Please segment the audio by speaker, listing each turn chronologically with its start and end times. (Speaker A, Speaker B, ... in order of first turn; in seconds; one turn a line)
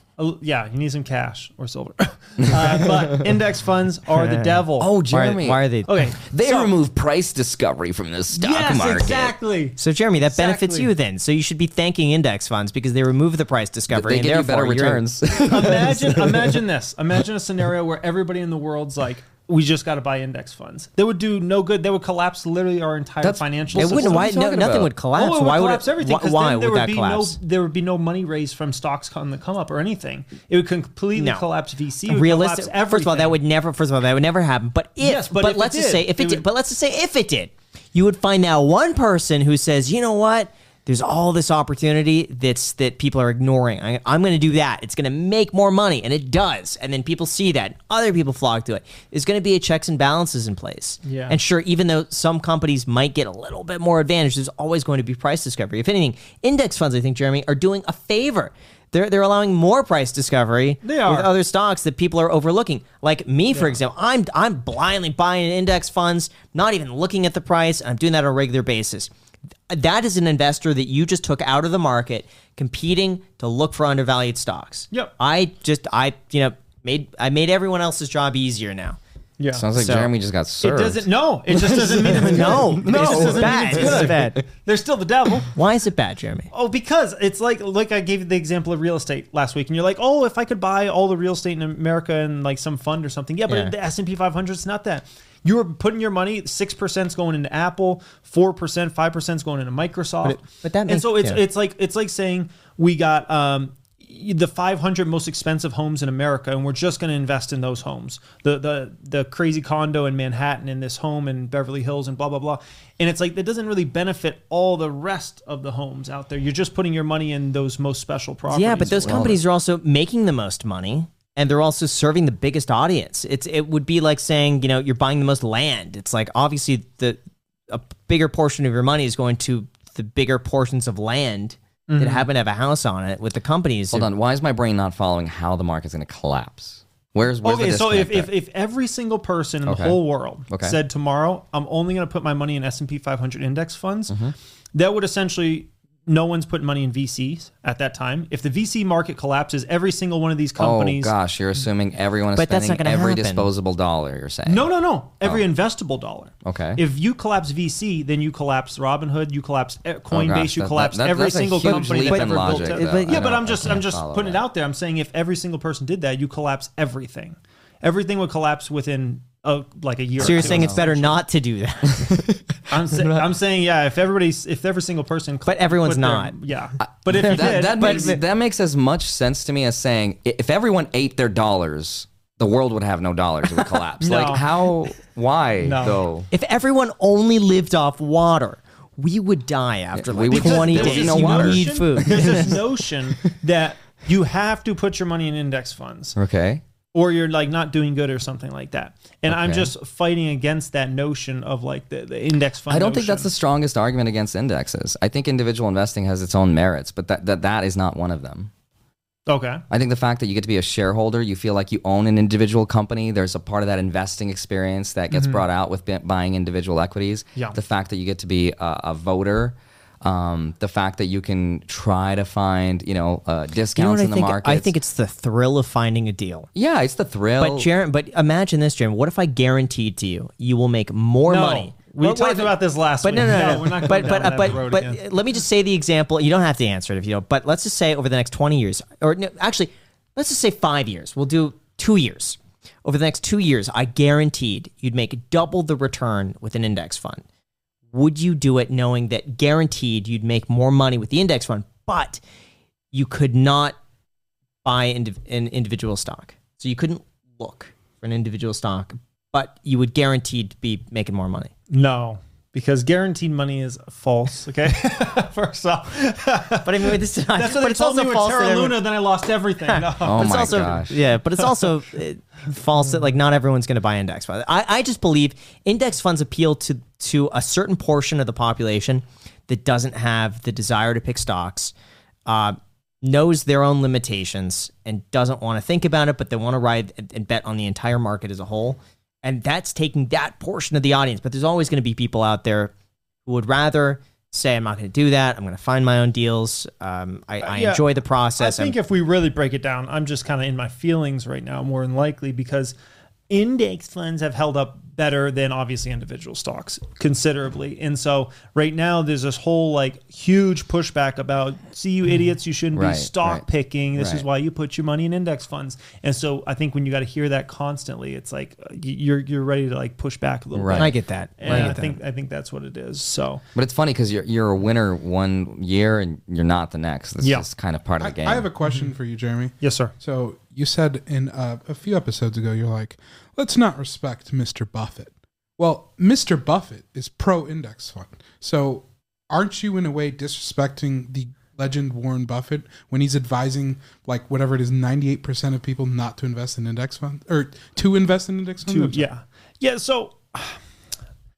Speaker A: 0.2-4.9
Speaker B: 2.5-3.0
Speaker C: 4.1-5.9
Speaker B: 4.8-9.3
Speaker A: 5.9-6.7
Speaker A: 8.3-10.9
Speaker C: 9.8-15.0
Speaker B: 13.9-16.6
Speaker A: 15.4-24.3
Speaker B: 23.2-24.9
Speaker C: 23.8-27.4
Speaker A: 25.1-33.4
Speaker C: 31.2-31.5
Speaker C: 32.1-69.1
Speaker A: 35.0-36.5
Speaker A: 51.0-51.4
Speaker A: 60.8-61.3
Speaker C: 69.7-79.0
Speaker A: 79.4-79.7
Speaker B: 79.5-84.4
Speaker C: 79.8-80.1
Speaker A: 80.6-85.5
Speaker C: 82.1-84.4
Speaker C: 85.5-86.5
Speaker A: 86.5-119.4
Speaker C: 93.5-93.7
Speaker C: 100.2-101.4
Speaker C: 118.5-127.2
Speaker B: 118.9-119.4
Speaker C: 127.7-134.1
Speaker A: 131.9-132.3
Speaker B: 133.9-138.3
Speaker A: 137.4-144.2
Speaker B: 139.7-140.8
Speaker B: 144.1-144.3
Speaker A: 144.7-151.1
Speaker B: 150.6-155.5
Speaker C: 152.4-153.5
Speaker A: 154.5-171.2
Speaker B: 156.4-156.8
Speaker B: 160.1-164.4
Speaker C: 161.6-163.8
Speaker B: 170.2-170.8
Speaker C: 170.2-172.4
Speaker B: 172.1-172.4
Speaker A: 172.7-178.2
Speaker C: 175.5-176.3
Speaker B: 176.8-186.3
Speaker C: 177.1-178.2
Speaker A: 184.0-184.5
Speaker A: 185.6-186.1
Speaker C: 186.3-192.6
Speaker B: 189.9-192.6
Speaker A: 190.3-196.2
Speaker B: 196.2-196.6
Speaker A: 196.9-203.3
Speaker B: 199.3-199.7
Speaker B: 202.7-208.5
Speaker A: 209.3-209.6
Speaker B: 209.7-224.7
Speaker A: 215.1-215.4
Speaker C: 223.8-226.5
Speaker B: 226.6-227.7
Speaker C: 227.4-247.2
Speaker A: 231.3-235.1
Speaker C: 247.9-252.2
Speaker C: 252.9-253.8
Speaker C: 254.6-261.5
Speaker A: 261.7-271.8
Speaker C: 266.6-268.8
Speaker C: 269.7-281.7
Speaker B: 270.0-271.0
Speaker C: 282.3-292.7
Speaker C: 293.3-298.8
Speaker A: 297.4-302.8
Speaker A: 303.3-323.4
Speaker B: 312.7-314.3
Speaker B: 320.5-320.9
Speaker C: 320.8-322.0
Speaker B: 321.4-321.8
Speaker B: 323.6-328.5
Speaker A: 327.2-327.5
Speaker D: 328.0-349.1
Speaker A: 328.6-328.9
Speaker A: 329.6-329.9
Speaker A: 348.6-350.6